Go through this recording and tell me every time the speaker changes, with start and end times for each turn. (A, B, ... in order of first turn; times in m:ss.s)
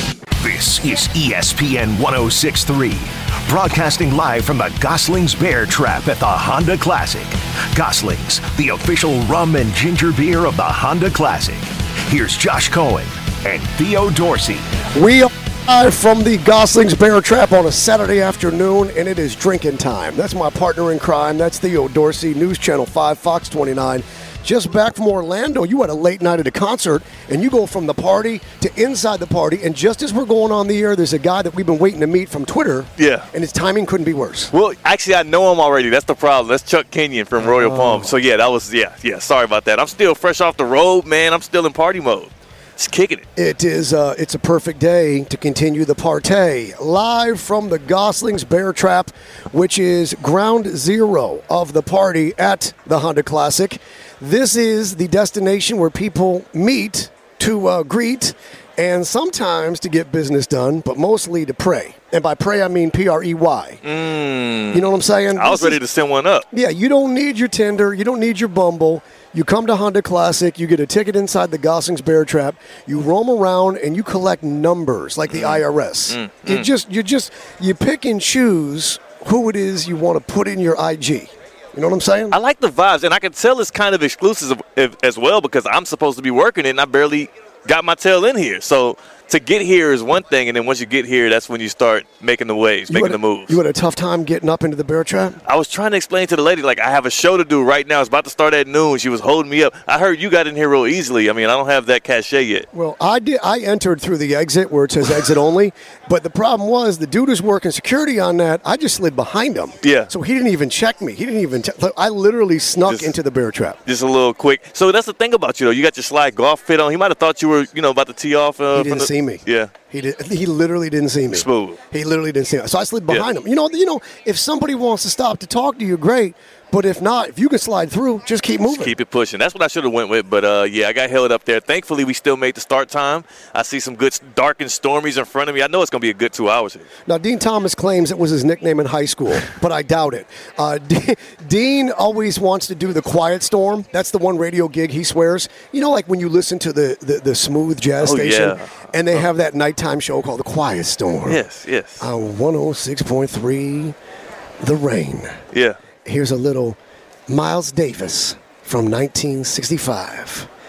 0:00.4-0:14.6 A
0:14.9-0:34.5 B
0:33.0-0:33.3 C
0:34.5-0:43.2 C
0:37.4-0:38.1 B
0:43.4-1:03.8 B
1:03.8-1:06.4 C
1:04.7-1:05.8 B
1:06.5-1:22.4 B
1:15.3-1:16.7 C
1:22.3-1:33.6 C
1:32.9-1:35.4 B
1:35.4-1:42.7 C
1:42.7-1:53.8 B
1:49.8-1:50.1 C
1:52.9-1:53.1 C
1:53.8-1:59.7 C
1:58.7-2:08.9 B
2:01.3-2:01.8 C
2:08.7-2:16.9 C
2:17.0-2:31.4 B
2:28.0-2:29.2 C
2:31.3-2:32.0 C
2:32.0-2:34.0 B
2:34.6-2:35.4 B
2:35.5-2:35.8 C
2:36.0-2:40.5 B